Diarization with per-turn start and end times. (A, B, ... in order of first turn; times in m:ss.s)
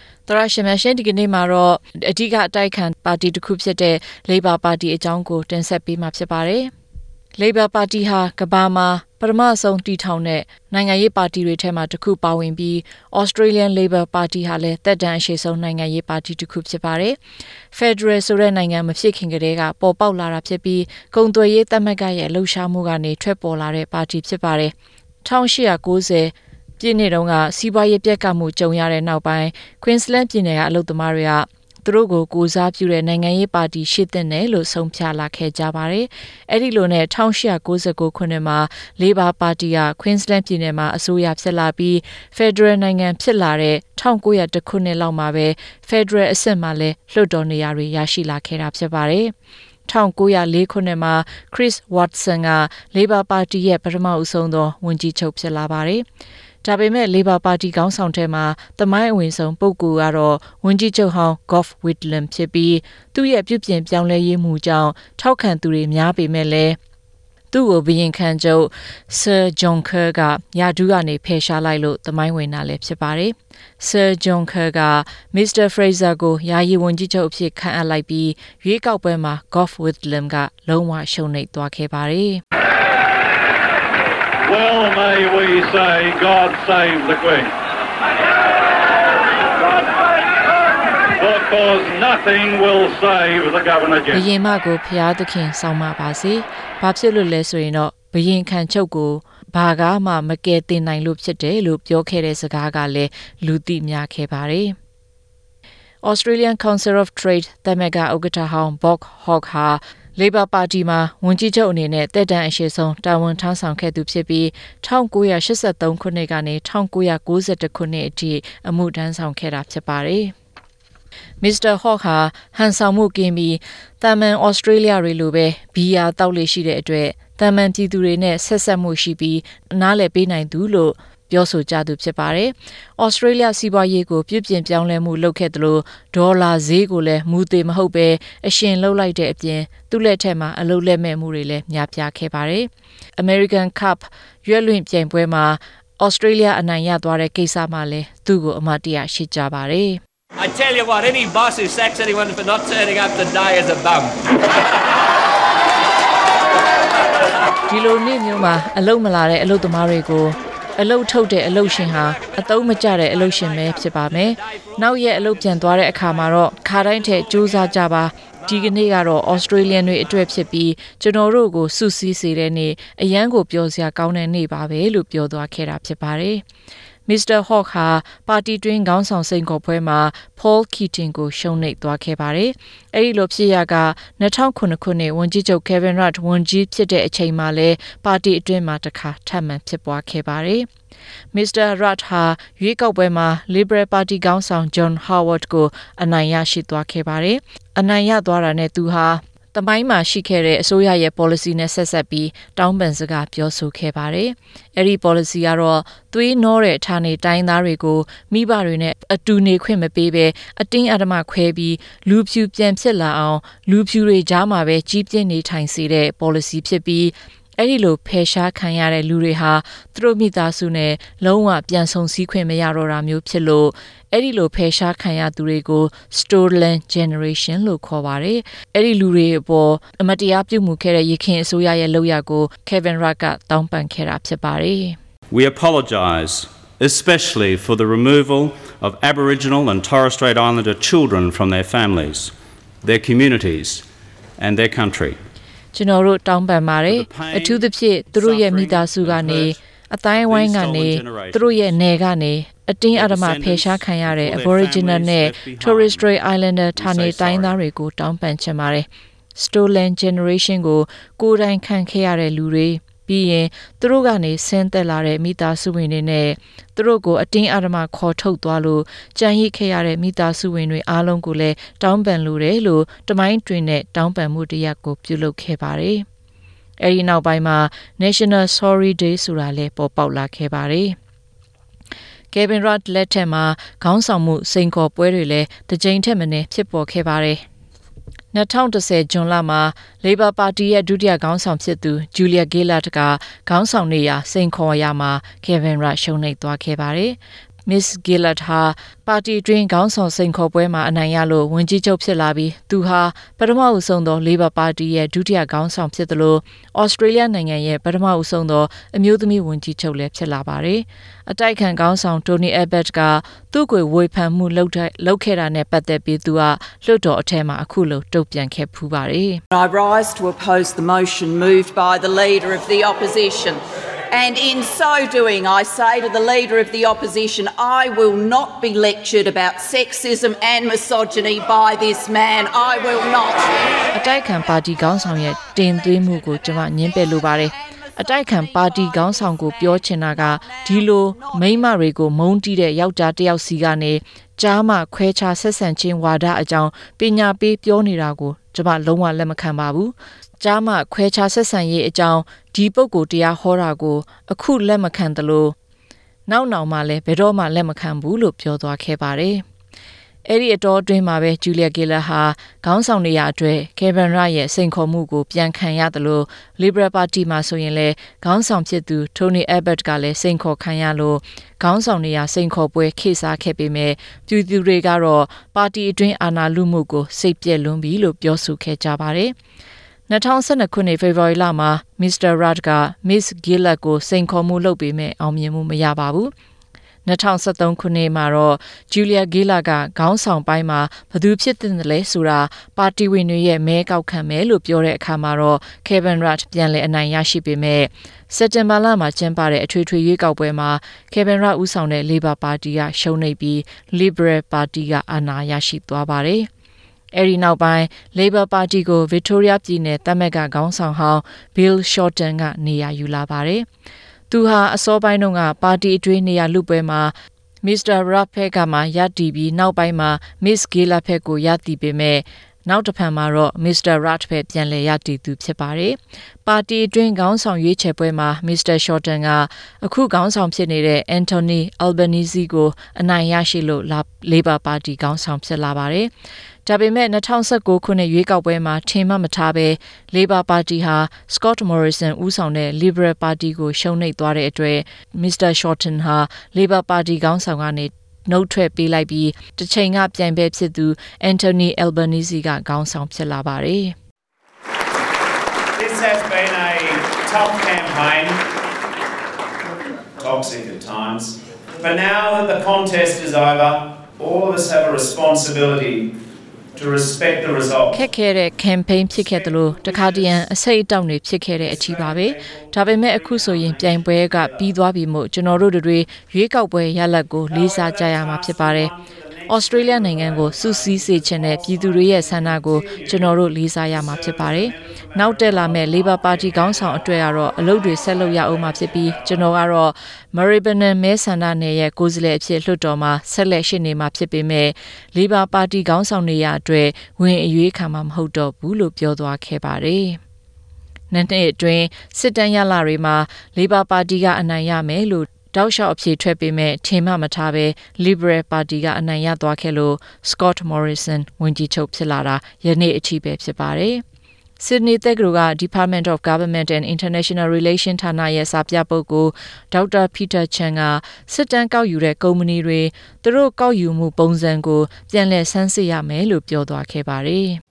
0:00.3-0:06.7 A
0:07.4-0:17.2 A
0:17.7-0:49.3 A
0:49.9-0:56.0 A
0:56.6-1:06.8 A
1:07.5-1:22.4 A
1:24.5-1:27.5 B
1:31.2-1:34.2 B
1:34.1-1:44.8 A
1:46.0-2:00.3 A
2:01.4-2:30.0 A
2:30.4-2:34.1 C
2:37.7-2:56.4 A
2:57.1-3:10.7 A
3:11.3-3:55.0 A
3:55.3-4:03.9 D
4:04.4-4:05.2 D
4:05.7-4:36.0 A
4:06.9-4:09.6 D
4:10.1-4:11.8 D
4:12.9-4:17.6 D
4:36.8-4:41.0 A
4:42.3-4:47.4 A
4:48.3-5:19.4 A
5:19.5-5:33.5 E
5:33.9-5:55.6 A
5:38.0-5:39.8 E
5:40.3-5:40.8 E
5:56.3-5:59.4 A
6:00.3-6:19.4 A
6:20.1-6:26.3 A
6:27.1-6:46.5 A
6:47.1-6:53.7 A
6:54.3-7:16.1 A
7:16.6-7:34.0 A
7:35.8-7:38.4 F
7:40.2-7:46.1 F
7:46.8-7:48.0 F
7:47.9-7:58.9 A
7:49.2-7:50.5 F
7:51.7-7:54.6 F
7:57.5-8:03.4 F
7:59.5-8:20.2 A
8:03.9-8:09.4 F
8:21.1-8:34.0 A
8:34.6-8:47.6 A